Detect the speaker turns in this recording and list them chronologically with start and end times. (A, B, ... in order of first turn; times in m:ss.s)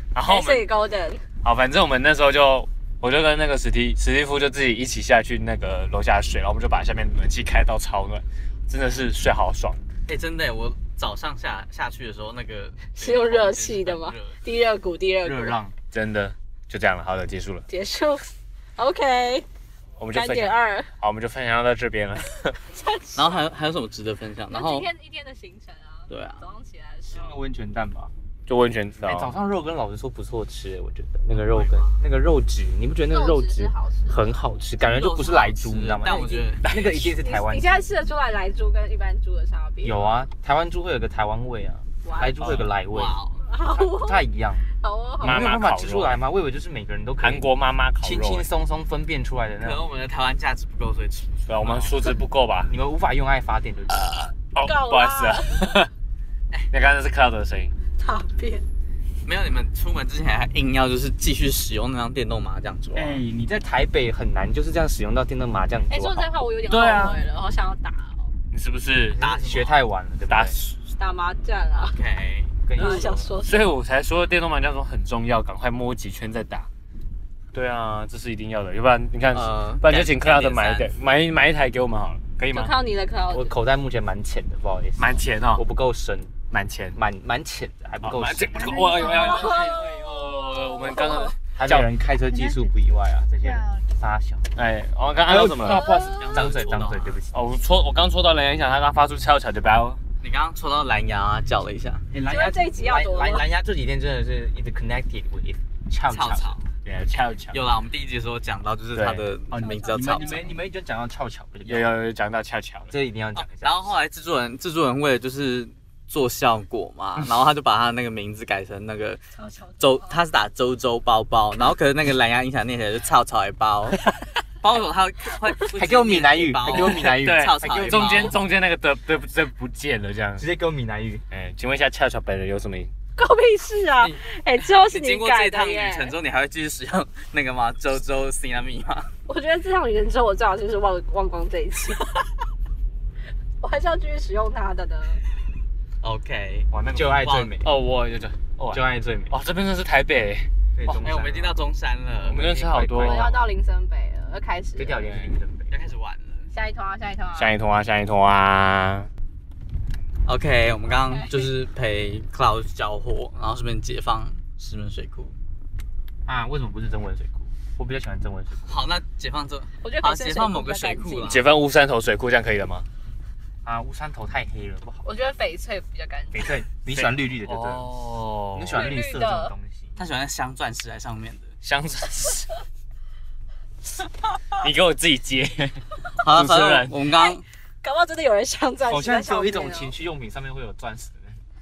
0:00.1-0:00.7 A
0:00.2-0:01.2 B
0:01.4-0:09.8 A
0:10.1-0:14.4 C
0:13.0-0:15.6 B
0:15.2-0:15.8 D
0:15.9-0:17.7 A
0:17.7-0:18.2 B
0:18.8-0:19.5 B
0:20.0-0:22.6 A
0:20.1-0:20.9 B
0:22.7-0:23.4 B
0:23.2-0:24.9 C
0:24.5-0:27.4 B
0:26.1-0:26.4 C
0:27.1-0:28.1 D
0:28.5-0:29.3 A
0:29.0-0:37.9 D
0:31.3-0:32.0 C
0:33.1-0:34.3 B
0:34.8-0:36.7 C
0:37.2-0:40.0 B
0:39.8-0:44.7 D
0:42.0-0:42.5 B
0:42.4-0:42.7 A
0:42.7-0:43.4 C
0:43.4-0:44.2 B
0:44.8-0:45.6 B
0:45.2-0:47.5 D
0:45.2-0:46.2 A
0:47.2-0:48.5 A
0:48.0-0:49.9 D
0:49.6-0:52.0 C
0:51.5-0:52.7 A
0:52.7-0:54.3 D
0:54.0-0:55.9 A
0:54.6-0:55.6 B
0:56.7-0:57.7 A
0:58.0-0:58.6 B
0:59.2-1:03.2 C
1:02.9-1:06.3 D
1:05.9-1:08.3 B
1:06.7-1:07.2 A
1:08.5-1:09.2 A
1:09.2-1:09.8 C
1:09.2-1:10.6 D
1:10.3-1:10.6 A
1:10.9-1:12.0 B
1:11.9-1:12.6 C
1:12.7-1:13.3 D
1:12.8-1:13.7 B
1:13.4-1:16.7 A
1:17.5-1:22.7 A
1:19.3-1:20.9 C
1:22.5-1:23.5 B
1:23.3-1:26.4 D
1:25.0-1:25.6 A
1:26.5-1:27.0 A
1:27.0-1:29.5 D
1:28.0-1:31.9 A
1:28.9-1:31.3 B
1:31.6-1:34.5 D
1:34.6-1:35.9 A
1:35.2-1:37.4 D
1:35.6-1:36.4 B
1:36.2-1:37.2 C
1:37.3-1:40.0 A
1:40.2-1:42.0 C
1:42.1-1:46.6 D
1:42.3-1:43.4 B
1:46.1-1:46.7 C
1:46.8-1:47.7 A
1:47.5-1:50.5 C
1:49.0-1:49.2 A
1:49.5-1:50.6 B
1:49.8-1:51.9 D
1:51.7-1:52.9 A
1:52.9-1:54.0 D
1:53.4-1:59.2 C
1:59.4-2:00.2 B
1:59.8-2:04.1 C
2:04.6-2:08.4 C
2:05.7-2:08.4 D
2:06.7-2:10.5 A
2:10.4-2:11.2 D
2:11.3-2:12.9 A
2:13.2-2:16.2 B
2:14.0-2:19.1 C
2:19.3-2:22.2 B
2:23.6-2:25.2 B
2:26.0-2:26.7 C
2:26.7-2:30.5 A
2:26.9-2:27.7 D
2:27.2-2:27.5 C
2:28.7-2:29.4 D
2:30.8-2:31.6 D
2:30.9-2:32.9 C
2:32.2-2:33.4 A
2:32.6-2:33.4 D
2:33.0-2:35.0 B
2:34.8-2:35.7 D
2:35.0-2:35.3 A
2:35.7-2:36.5 C
2:36.5-2:37.5 B
2:37.4-2:39.1 A
2:40.3-2:45.3 C
2:40.9-2:41.5 B
2:46.3-2:48.8 D
2:48.7-2:51.5 C
2:49.8-2:51.4 B
2:51.3-2:52.9 A
2:53.6-2:55.1 D
2:55.0-2:56.5 B
2:56.3-2:57.9 D
2:56.9-2:58.9 A
2:58.5-3:00.0 D
2:58.7-2:59.5 B
3:00.0-3:01.5 C
3:01.6-3:02.5 A
3:04.6-3:07.0 A
3:06.2-3:07.4 C
3:07.1-3:09.9 B
3:08.9-3:11.4 D